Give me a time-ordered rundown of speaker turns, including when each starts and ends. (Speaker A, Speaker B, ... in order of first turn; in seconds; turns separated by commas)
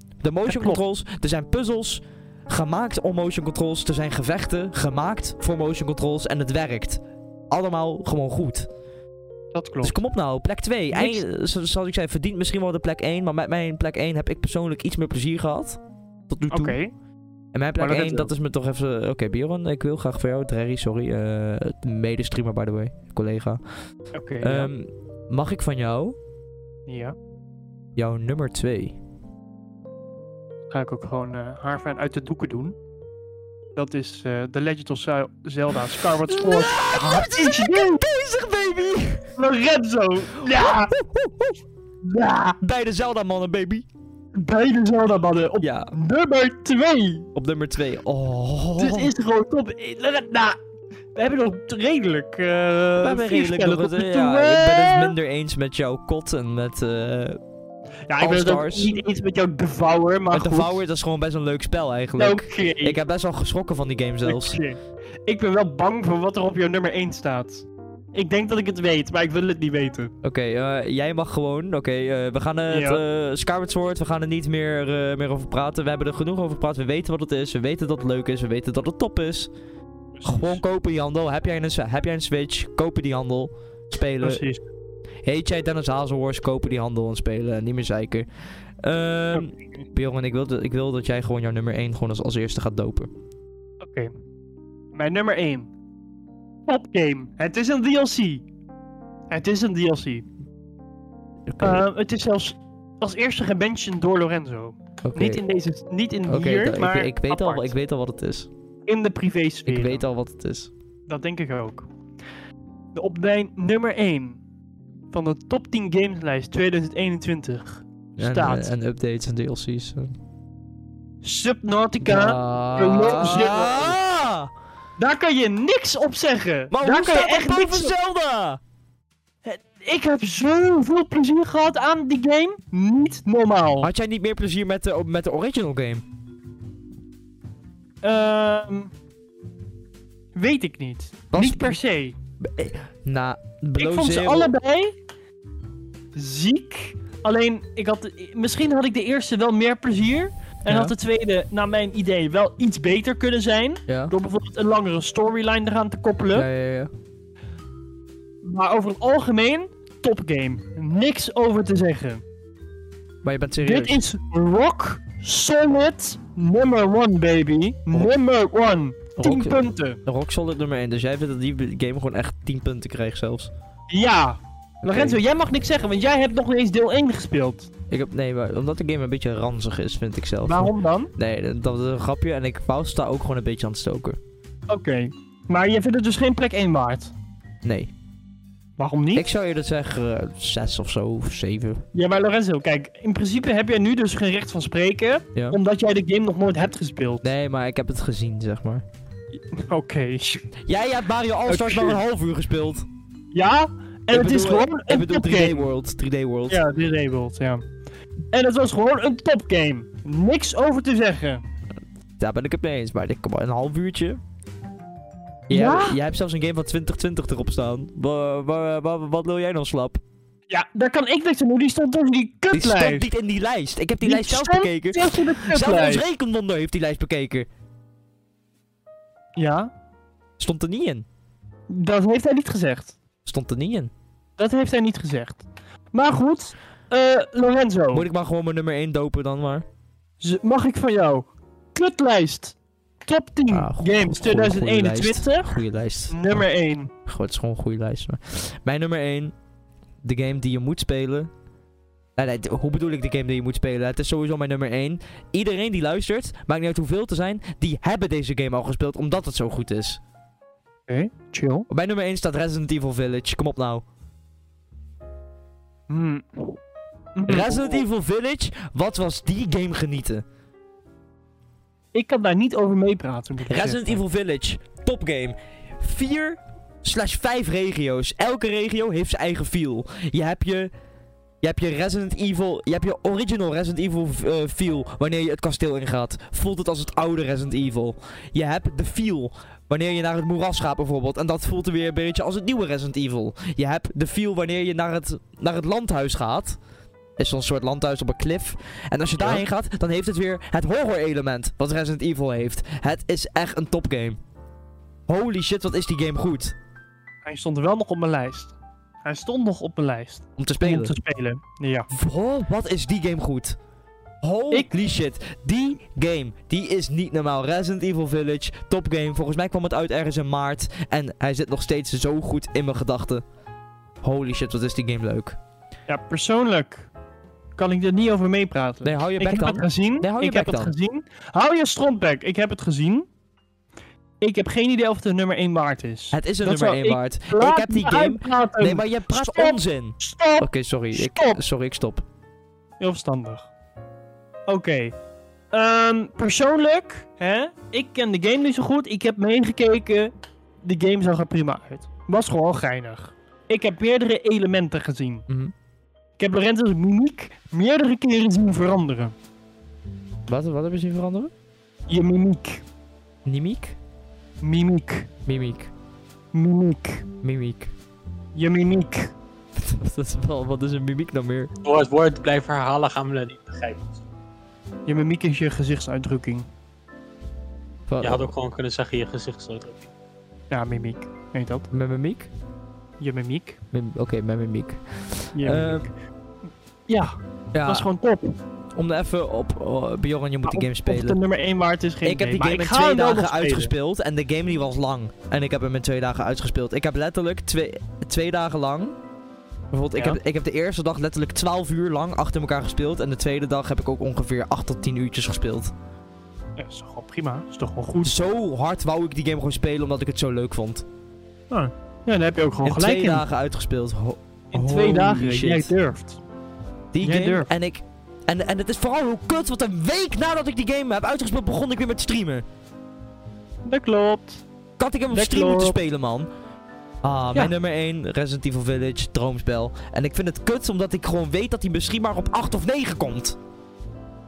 Speaker A: 0.2-8.7, Speaker B: 0.5-0.8, Speaker B: 9.5-10.0, Speaker A: 9.8-16.8, Speaker B: 10.9-11.2, Speaker B: 16.5-16.9, Speaker A: 17.5-23.6, Speaker B: 17.8-18.3, Speaker B: 24.1-24.7, Speaker A: 24.4-26.2, Speaker B: 26.9-27.2, Speaker A: 28.0-29.0, Speaker B: 30.7-32.8, Speaker B: 33.8-38.0, Speaker A: 36.2-39.3, Speaker B: 39.4-40.9, Speaker A: 40.4-41.6, Speaker B: 42.0-42.6, Speaker A: 42.6-43.9, Speaker B: 44.4-47.3, Speaker A: 45.6-45.9, Speaker A: 47.4-49.1, Speaker B: 48.8-50.6, Speaker B: 51.1-55.1, Speaker A: 53.0-57.4, Speaker B: 58.1-60.8, Speaker A: 58.2-59.0, Speaker A: 60.3-64.6, Speaker B: 62.2-63.0, Speaker B: 64.2-70.1, Speaker A: 70.2-79.5, Speaker B: 72.7-73.0, Speaker B: 80.1-80.6, Speaker A: 80.2-84.4, Speaker B: 84.2-84.6, Speaker A: 85.2-88.3, Speaker A: 88.8-93.1, Speaker B: 89.3-89.8, Speaker B: 93.8-94.1, Speaker B: 94.9-95.7, Speaker B: 96.7-98.5, Speaker B: 99.3-100.3, Speaker A: 101.5-101.8, Speaker B: 101.6-107.7, Speaker A: 105.0-105.4, Speaker A: 106.3-108.5, Speaker B: 108.9-110.0, Speaker A: 109.7-110.7, Speaker B: 111.1-111.9, Speaker B: 113.0-114.4, Speaker B: 115.1-118.7, Speaker A: 118.2-120.2, Speaker B: 121.2-124.0, Speaker A: 122.0-124.5, Speaker B: 125.0-127.9, Speaker A: 126.7-128.6, Speaker B: 129.4-133.9, Speaker A: 133.8-136.0, Speaker B: 138.0-138.9, Speaker B: 140.3-142.1, Speaker A: 141.3-141.8, Speaker A: 142.4-144.5, Speaker B: 143.8-144.9, Speaker B: 146.1-156.5, Speaker A: 150.7-150.9, Speaker A: 153.9-154.1, Speaker A: 156.3-156.9, Speaker B: 158.4-162.2, Speaker A: 163.2-164.0, Speaker B: 163.6-170.0, Speaker A: 169.2-173.5, Speaker B: 173.9-177.7, Speaker A: 174.8-175.2, Speaker A: 177.9-184.2, Speaker B: 180.4-181.1, Speaker B: 184.7-187.1, Speaker A: 187.6-187.9, Speaker B: 188.8-189.3, Speaker A: 189.1-191.8, Speaker B: 191.9-197.2, Speaker A: 197.2-198.8, Speaker B: 199.5-200.5, Speaker A: 200.7-202.9, Speaker B: 201.5-202.0, Speaker B: 203.3-205.7, Speaker A: 204.1-206.6, Speaker B: 206.5-207.6, Speaker B: 208.3-211.4, Speaker A: 212.2-214.2, Speaker A: 215.5-220.0, Speaker B: 215.5-216.0, Speaker B: 220.5-223.0, Speaker A: 222.5-227.5, Speaker B: 224.0-226.0, Speaker B: 229.4-229.7, Speaker A: 230.4-231.1, Speaker B: 231.7-232.9, Speaker A: 233.2-233.9, Speaker B: 234.4-238.1, Speaker A: 237.9-239.7, Speaker B: 240.2-242.6, Speaker B: 243.1-246.9, Speaker A: 243.5-246.2, Speaker A: 247.1-249.3, Speaker A: 250.0-251.3, Speaker A: 252.2-260.0, Speaker B: 260.9-261.7, Speaker A: 261.7-263.8, Speaker B: 265.9-266.6, Speaker B: 267.2-267.9, Speaker A: 267.3-270.2, Speaker B: 271.9-274.0, Speaker A: 273.5-280.7, Speaker A: 281.4-296.6, Speaker A: 297.2-304.2, Speaker A: 305.1-306.6, Speaker B: 307.2-311.9, Speaker A: 310.4-310.9, Speaker A: 311.9-313.6, Speaker A: 314.2-323.2, Speaker A: 324.0-325.4, Speaker B: 325.9-326.9, Speaker B: 327.6-333.1, Speaker A: 328.8-330.7, Speaker B: 334.2-341.4, Speaker A: 336.1-342.1, Speaker B: 342.8-343.5, Speaker B: 344.5-344.9, Speaker B: 345.5-350.1, Speaker B: 350.6-355.3, Speaker B: 356.2-359.1, Speaker A: 360.3-361.3, Speaker B: 361.9-362.6, Speaker A: 363.3-363.8, Speaker B: 364.4-365.1, Speaker A: 365.3-365.7, Speaker B: 366.3-367.1, Speaker A: 367.2-367.7, Speaker B: 368.4-369.1, Speaker A: 369.6-371.5, Speaker C: 371.6-374.0, Speaker B: 374.9-376.5, Speaker A: 377.9-378.3, Speaker C: 378.0-379.9, Speaker B: 380.5-381.7, Speaker A: 381.7-382.3, Speaker B: 383.0-383.6, Speaker A: 383.7-385.9, Speaker B: 385.3-385.9, Speaker B: 386.9-388.4, Speaker A: 387.5-387.9, Speaker A: 388.8-391.2, Speaker B: 390.5-393.7, Speaker A: 392.0-399.0, Speaker A: 399.7-405.7, Speaker B: 406.6-408.2, Speaker A: 408.0-410.9, Speaker B: 411.5-413.2, Speaker A: 412.6-415.7, Speaker B: 414.5-416.2, Speaker A: 416.9-422.4, Speaker B: 417.0-417.5, Speaker B: 423.7-424.4, Speaker A: 424.8-426.3, Speaker B: 425.1-425.8, Speaker A: 427.0-433.4